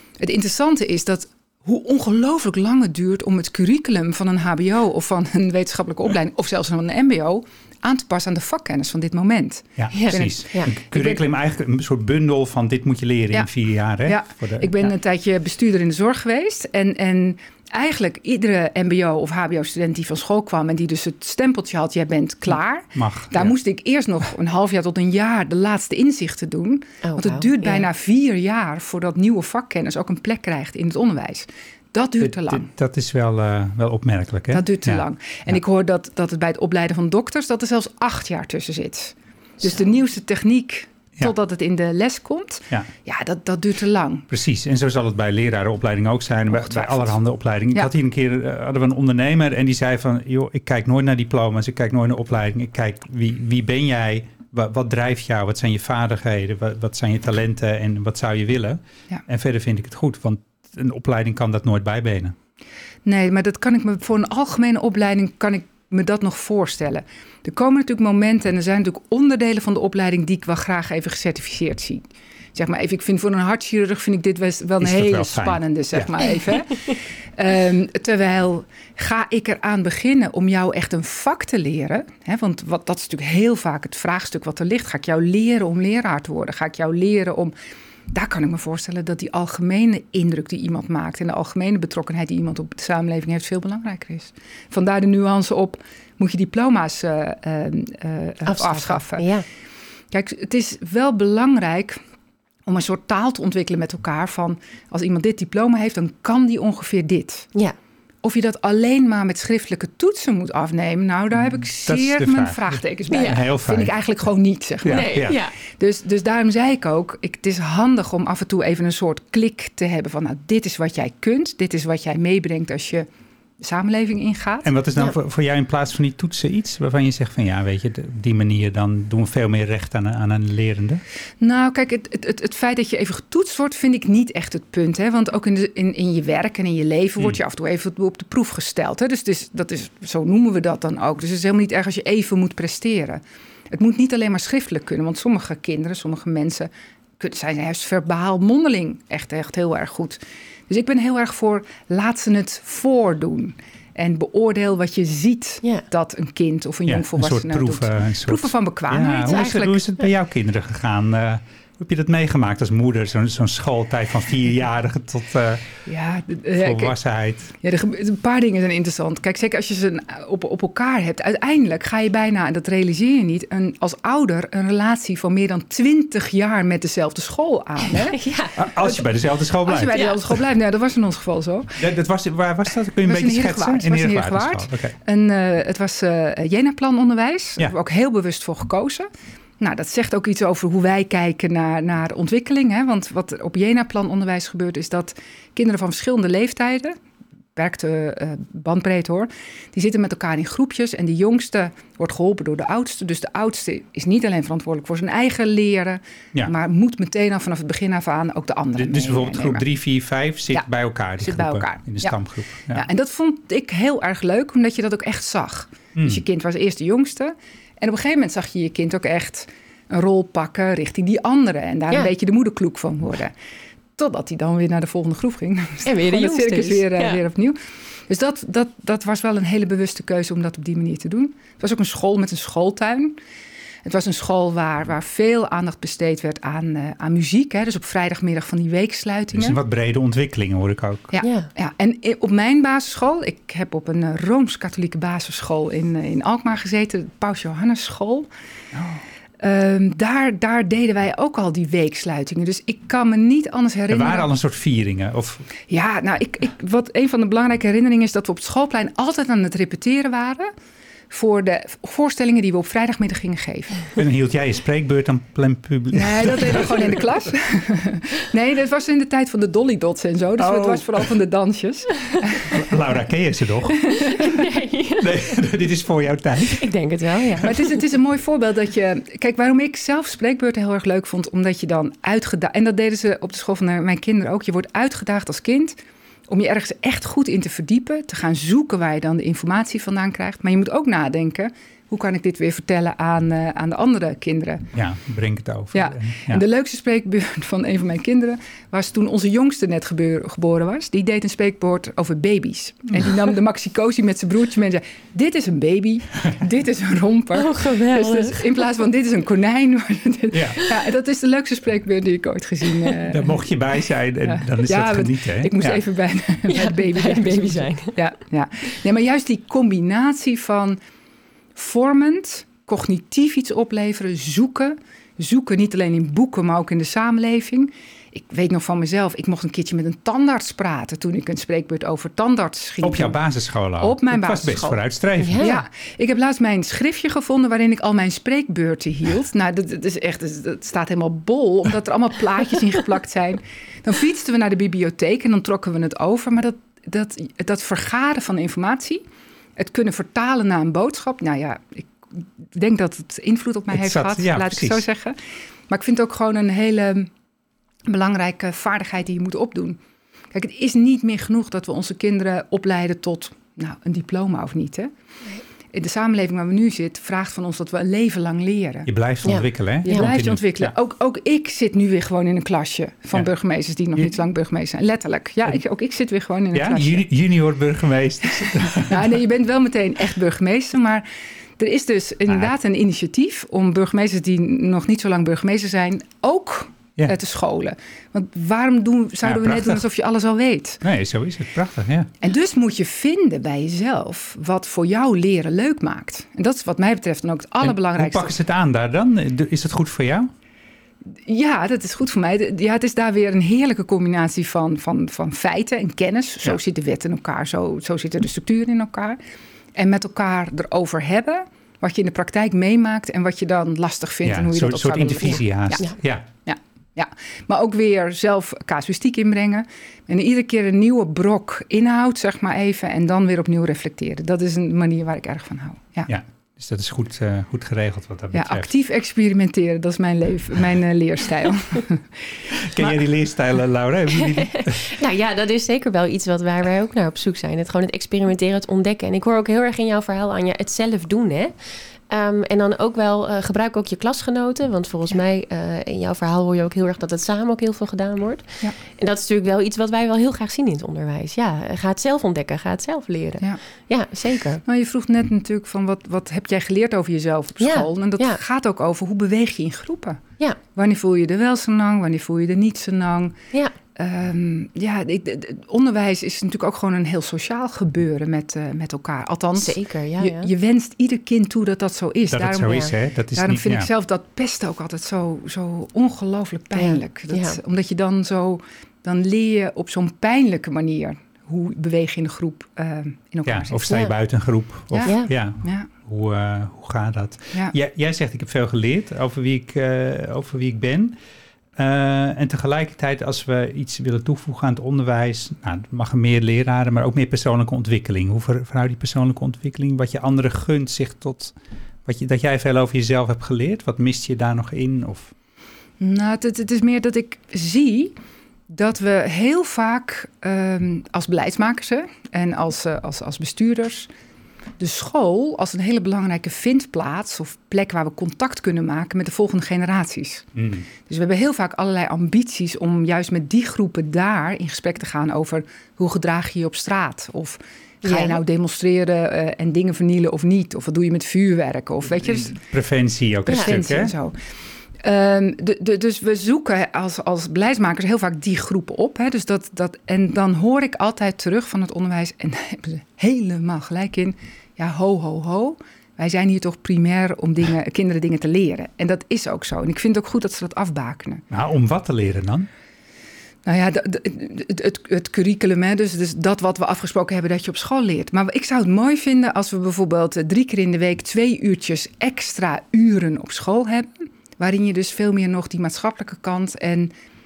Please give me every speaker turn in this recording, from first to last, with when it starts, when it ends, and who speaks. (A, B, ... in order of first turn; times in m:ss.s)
0:00.2-0:10.2 A
0:09.8-0:14.9 B
0:09.9-0:10.7 C
0:10.8-0:11.2 A
0:14.0-0:32.7 A
0:22.9-0:23.5 B
0:27.0-0:27.9 C
0:32.2-0:35.6 B
0:34.5-0:44.3 A
0:44.3-1:02.4 B
0:46.5-0:47.2 A
1:03.0-1:27.5 A
1:14.8-1:16.1 B
1:28.1-1:39.3 A
1:38.5-1:39.4 C
1:40.1-1:42.0 A
1:42.7-1:47.5 A
1:48.2-2:03.1 A
1:51.4-1:53.9 B
1:53.1-1:53.4 C
1:54.8-1:55.4 B
1:54.8-1:55.5 C
2:03.6-2:04.7 A
2:04.6-2:11.0 B
2:11.4-2:39.8 A
2:36.9-2:45.7 B
2:45.9-2:47.0 A
2:46.6-2:47.5 B
2:47.6-2:58.2 A
2:57.9-2:58.6 C
2:58.6-3:00.4 B
2:59.6-3:01.8 A
2:59.9-3:00.2 C
3:01.8-3:05.0 B
3:03.0-3:09.1 A
3:09.6-3:17.0 A
3:17.6-3:29.6 A
3:28.8-3:32.9 B
3:31.2-3:32.2 A
3:32.7-3:43.3 A
3:36.0-3:36.2 B
3:44.0-3:47.6 A
3:45.8-3:47.2 C
3:48.1-3:53.2 A
3:53.8-3:59.6 A
3:59.3-4:01.1 B
4:01.1-4:08.3 A
4:01.2-4:01.5 C
4:08.7-4:09.0 B
4:09.4-4:14.3 A
4:13.9-4:15.5 B
4:15.7-4:20.5 A
4:21.1-4:23.9 A
4:24.0-4:27.1 B
4:25.9-4:32.6 A
4:30.4-4:31.1 B
4:32.5-4:34.0 B
4:33.9-4:34.3 A
4:34.0-4:35.4 C
4:35.0-4:36.7 B
4:36.4-4:37.8 C
4:37.4-4:45.8 A
4:46.3-4:54.7 A
4:54.7-4:56.4 B
4:55.7-5:13.4 A
5:07.3-5:08.6 C
5:10.3-5:10.6 B
5:13.1-5:15.8 B
5:14.2-5:20.8 A
5:16.5-5:18.0 C
5:21.6-5:33.2 A
5:32.8-5:35.5 B
5:33.8-5:34.8 A
5:35.2-5:35.6 C
5:35.4-5:49.0 A
5:49.6-5:55.2 A
5:53.7-5:54.8 B
5:55.7-5:57.1 A
5:57.9-5:59.8 A
6:00.3-6:04.9 A
6:05.7-6:08.9 A
6:08.9-6:10.7 B
6:09.3-6:10.1 C
6:09.8-6:17.0 A
6:16.5-6:19.2 B
6:18.6-6:21.1 A
6:21.6-6:30.8 A
6:29.2-6:29.8 B
6:30.8-6:32.1 B
6:32.2-6:38.3 A
6:37.6-6:40.3 B
6:41.2-6:49.2 A
6:49.8-7:06.1 A
6:54.2-6:56.3 B
7:06.1-7:08.7 B
7:08.3-7:12.1 A
7:12.6-7:14.9 B
7:14.2-7:21.6 C
7:22.1-7:34.6 C
7:34.6-7:40.2 A
7:37.6-7:38.4 C
7:40.8-7:43.4 A
7:44.0-8:04.1 A
7:49.6-7:50.5 C
7:52.3-7:53.9 B
7:56.8-7:57.6 C
8:03.5-8:11.2 B
8:04.9-8:05.9 A
8:05.1-8:05.3 C
8:11.8-8:25.3 B
8:26.0-8:28.2 A
8:28.7-8:34.1 A
8:34.8-8:40.5 A
8:40.6-8:40.8 B
8:41.1-8:52.6 A
8:48.0-8:48.4 C
8:52.2-8:54.1 B
8:53.5-8:54.4 A
8:55.0-9:11.4 A
9:11.5-9:12.7 B
9:13.6-9:27.1 A